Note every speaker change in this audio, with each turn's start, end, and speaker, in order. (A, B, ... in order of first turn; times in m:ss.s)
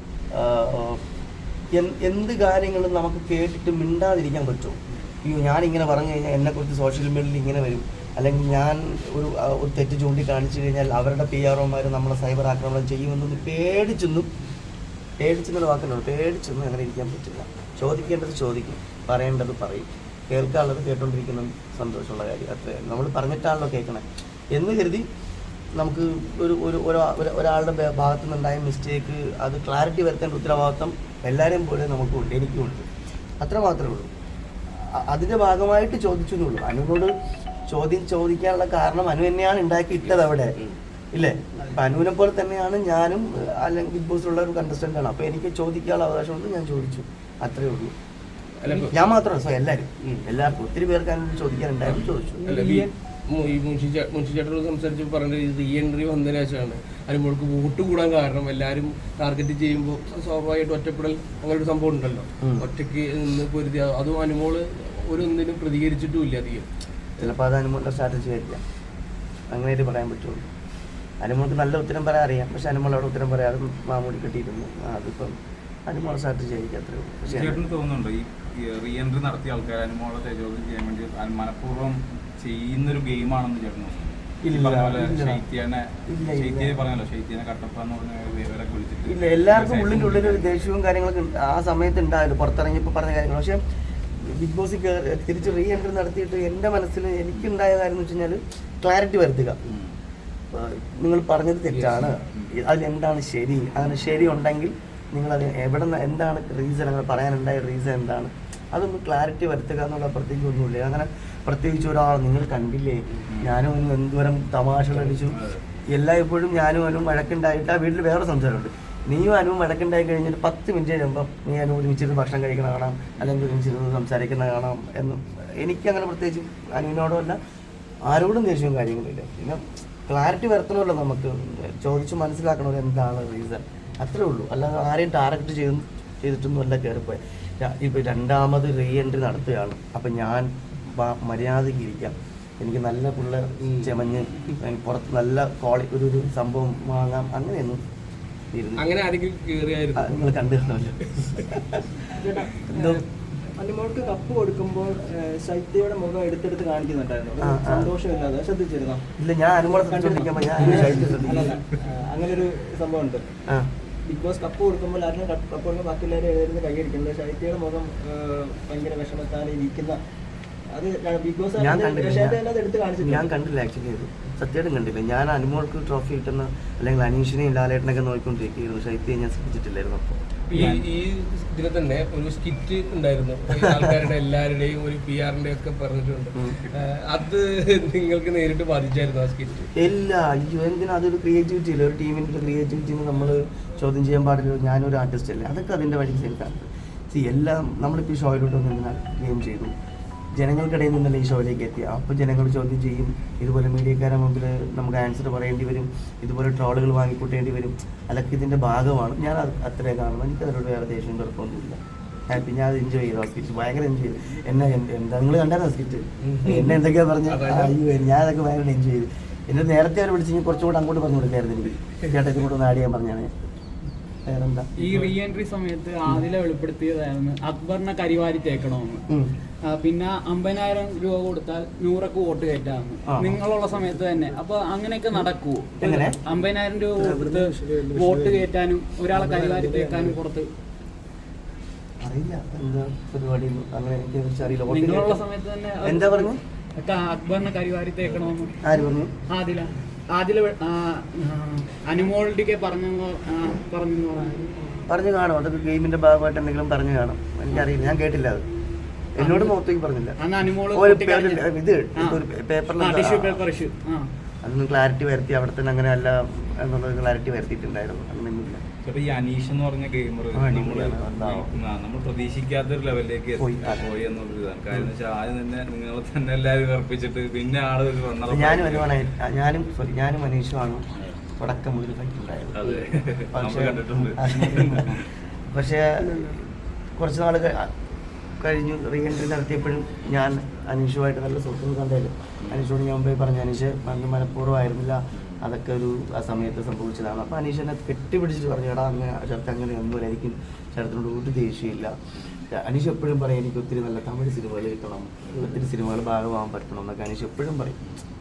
0:00.3-0:01.0 A
0:01.7-0:14.3 A
0:15.2-0:25.0 A
0:25.8-0:32.9 A
0:33.4-0:34.1 A
0:34.9-0:37.1 A
0:37.7-0:40.5 A
0:41.1-0:47.9 A
0:48.6-0:48.9 B
0:48.7-0:52.5 A
0:51.9-1:06.7 B
0:52.4-0:52.9 C
1:02.4-1:02.6 A
1:07.2-1:08.6 A
1:09.5-1:10.4 A
1:11.2-1:15.3 A
1:15.9-1:17.6 A
1:17.3-1:30.5 D
1:24.4-1:25.4 A
1:26.1-1:26.8 A
1:29.0-1:33.6 A
1:34.2-1:39.6 A
1:39.7-1:39.9 D
1:40.5-1:55.4 A
1:41.7-1:42.1 B
1:53.3-1:53.6 D
1:55.3-1:55.6 D
1:55.9-2:07.4 A
2:08.0-2:27.8 A
2:23.6-2:24.6 B
2:28.5-2:28.9 A
2:28.8-2:30.2 B
2:30.0-2:32.0 A
2:31.1-2:31.4 B
2:32.1-2:32.6 E
2:32.6-2:33.0 A
2:33.5-2:39.0 E
2:37.4-2:37.9 A
2:39.2-2:41.5 A
2:39.7-2:43.2 E
2:44.0-2:50.0 E
2:50.7-2:53.3 E
2:51.6-2:52.4 A
2:53.0-3:00.1 A
3:00.5-3:09.7 B
3:00.5-3:00.8 D
3:09.8-3:19.7 A
3:20.4-3:43.3 A
3:36.2-3:37.8 B
3:44.2-3:44.7 A
3:44.8-3:49.0 C
3:49.7-4:00.5 C
3:53.1-3:53.4 A
3:55.8-3:56.2 A
3:57.0-3:58.5 E
3:59.1-4:00.2 E
4:02.0-4:05.2 A
4:04.7-4:08.6 C
4:05.8-4:06.4 A
4:08.6-4:09.1 A
4:09.3-4:14.7 C
4:14.9-4:18.4 A
4:19.2-4:20.2 A
4:19.2-4:19.5 C
4:20.2-4:21.4 C
4:20.7-4:23.4 A
4:22.0-4:22.2 C
4:22.7-4:24.1 C
4:24.4-4:28.6 A
4:28.8-4:38.9 D
4:30.3-4:31.5 A
4:33.4-4:33.8 A
4:38.3-4:40.8 A
4:41.4-4:42.6 A
4:42.5-4:45.0 D
4:42.6-4:42.9 B
4:43.3-4:46.4 A
4:47.0-4:47.7 A
4:48.4-5:02.0 A
4:55.1-4:55.4 D
5:02.2-5:02.4 D
5:02.5-5:07.8 A
5:05.3-5:05.6 D